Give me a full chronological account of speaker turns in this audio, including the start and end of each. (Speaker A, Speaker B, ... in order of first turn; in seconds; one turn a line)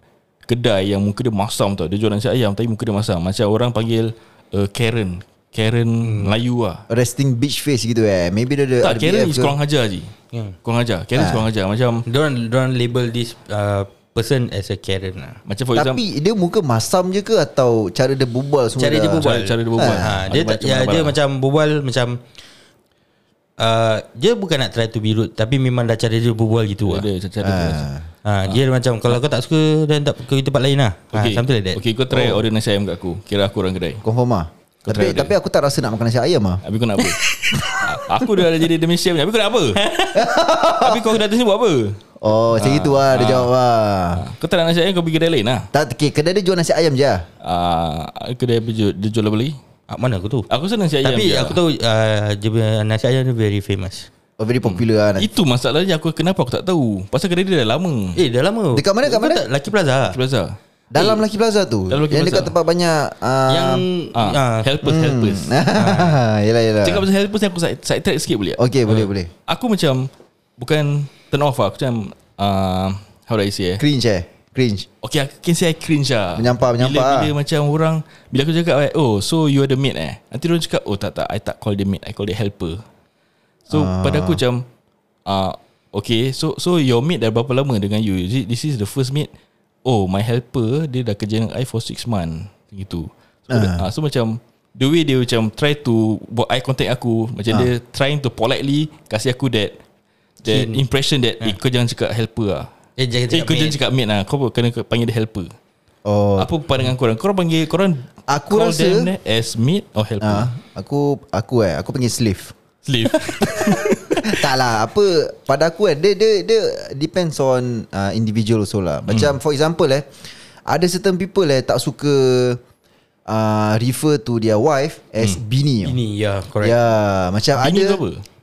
Speaker A: 0.5-6.8
Speaker B: 6.0-6.3
Speaker C: 6.9-9.5
Speaker A: 8.8-10.1
Speaker A: 10.6-12.1
Speaker C: 11.2-11.4
Speaker B: 12.1-15.4
Speaker A: 15.4-16.0
Speaker C: 15.7-20.3
Speaker B: 18.8-22.2
Speaker A: 19.2-21.2
Speaker B: 23.6-27.1
Speaker A: 26.8-27.9
Speaker C: 27.4-28.1
Speaker B: 28.2-31.8
Speaker A: 31.1-34.0
Speaker C: 34.0-36.6
Speaker A: 34.9-35.3
Speaker A: 36.6-39.8
Speaker B: 37.2-37.8
Speaker B: 39.8-40.2
Speaker C: 40.1-41.0
Speaker A: 40.8-42.0
Speaker C: 42.2-44.2
Speaker A: 42.6-43.5
Speaker A: 44.1-45.7
Speaker C: 45.7-47.2
Speaker A: 47.4-49.6
Speaker B: 49.9-50.5
Speaker A: 50.5-51.6
Speaker B: 51.0-54.1
Speaker C: 54.4-55.3
Speaker A: 54.6-58.2
Speaker B: 58.1-60.2
Speaker C: 58.7-59.4
Speaker A: 60.1-60.6
Speaker C: 60.9-63.8
Speaker B: 60.9-61.2
Speaker A: 61.9-62.5
Speaker B: 63.5-64.7
Speaker A: 64.1-65.7
Speaker C: 64.8-67.0
Speaker B: 65.8-66.2
Speaker A: 66.8-73.8
Speaker C: 68.6-69.3
Speaker C: 73.8-74.9
Speaker A: 75.0-82.8
Speaker C: 76.3-77.3
Speaker A: 83.7-84.7
Speaker C: 83.7-84.4
Speaker A: 85.2-89.3
Speaker A: 89.8-99.8
Speaker C: 93.5-93.9
Speaker A: 100.4-102.7
Speaker B: 100.5-100.8
Speaker B: 103.0-103.8
Speaker A: 103.3-105.5
Speaker C: 106.0-106.5
Speaker A: 106.4-110.5
Speaker C: 108.3-109.1
Speaker C: 110.2-112.5
Speaker A: 112.8-114.5
Speaker C: 113.1-122.6
Speaker A: 119.1-119.3
Speaker C: 123.3-126.0
Speaker B: 125.8-126.8
Speaker C: 126.6-128.0
Speaker A: 127.6-128.2